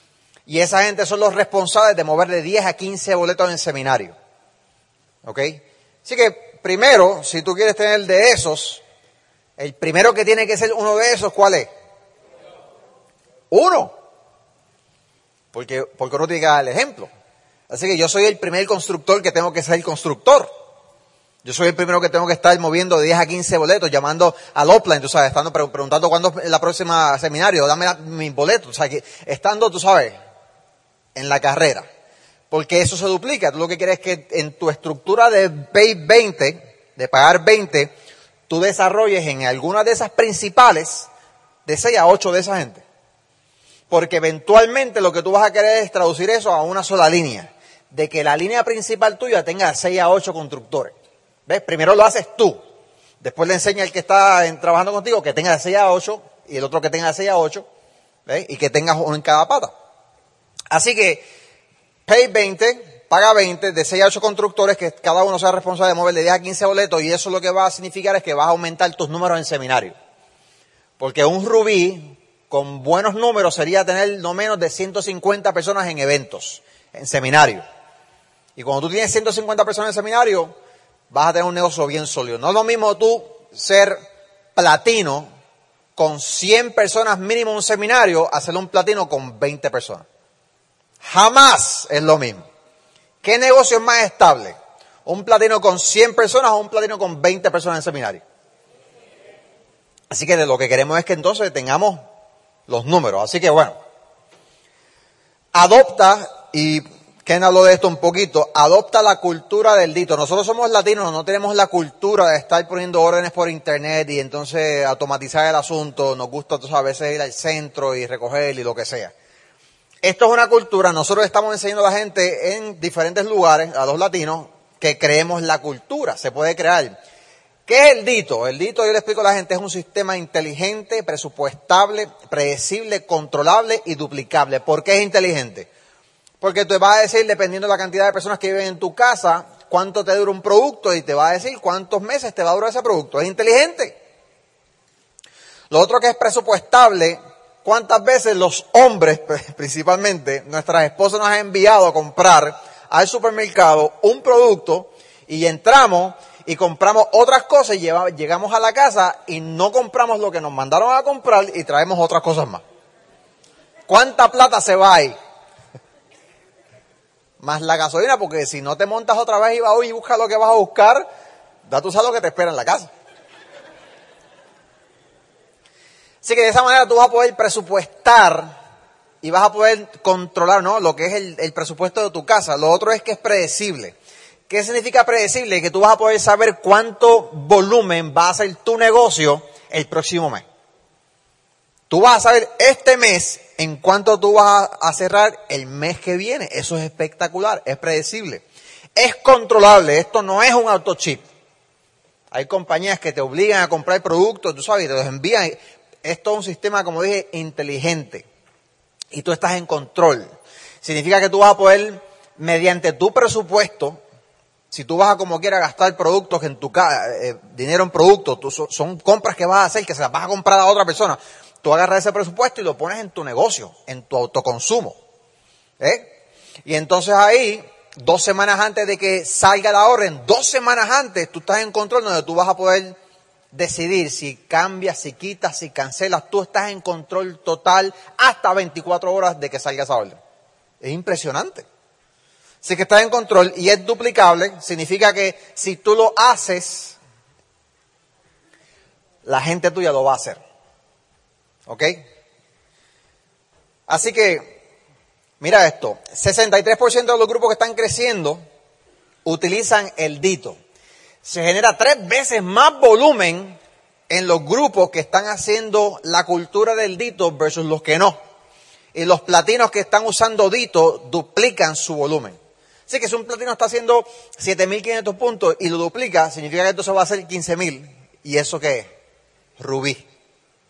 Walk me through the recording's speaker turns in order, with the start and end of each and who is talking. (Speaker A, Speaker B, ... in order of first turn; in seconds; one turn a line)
Speaker A: 0.5-4.1
Speaker A: 5.2-8.8
Speaker A: 9.6-11.7
Speaker A: 13.5-13.9
Speaker A: 15.5-17.1
Speaker A: 17.7-20.5
Speaker A: 21.4-30.1
Speaker A: 31.1-31.9
Speaker A: 32.5-37.9
Speaker A: 38.5-41.1
Speaker A: 41.6-42.8
Speaker A: 43.9-50.9
Speaker A: 51.5-52.6
Speaker A: 53.2-57.6
Speaker A: 58.2-59.7
Speaker A: 60.7-61.3
Speaker A: 62.1-69.9
Speaker A: 71.0-77.6
Speaker A: 78.5-80.5
Speaker A: 81.1-84.0
Speaker A: 84.5-85.3
Speaker A: 86.0-90.0
Speaker A: 91.0-92.5
Speaker A: 93.2-98.2
Speaker A: 100.1-102.0
Speaker A: 102.7-103.8
Speaker A: 105.5-119.1
Speaker A: 120.0-127.0
Speaker A: 127.7-135.7
Speaker A: 136.4-144.0
Speaker A: 145.7-162.6
Speaker A: 163.9-165.2
Speaker A: 167.4-171.1
Speaker A: 171.7-172.9
Speaker A: 176.2-178.5
Speaker A: 179.2-183.9
Speaker A: 184.5-190.4
Speaker A: 191.9-198.4
Speaker A: 198.9-201.2
Speaker A: 202.3-208.2
Speaker A: 209.1-210.3
Speaker A: 210.8-214.0
Speaker A: 214.7-224.9
Speaker A: 225.8-226.1
Speaker A: 226.7-232.9
Speaker A: 233.5-240.2
Speaker A: 240.8-241.6
Speaker A: 242.6-246.9
Speaker A: 249.2-250.4
Speaker A: 251.7-252.0
Speaker A: 253.9-254.6
Speaker A: 255.4-258.4
Speaker A: 259.2-260.6
Speaker A: 261.2-263.6
Speaker A: 264.1-268.2
Speaker A: 268.9-272.4
Speaker A: 272.9-278.9
Speaker A: 279.6-280.0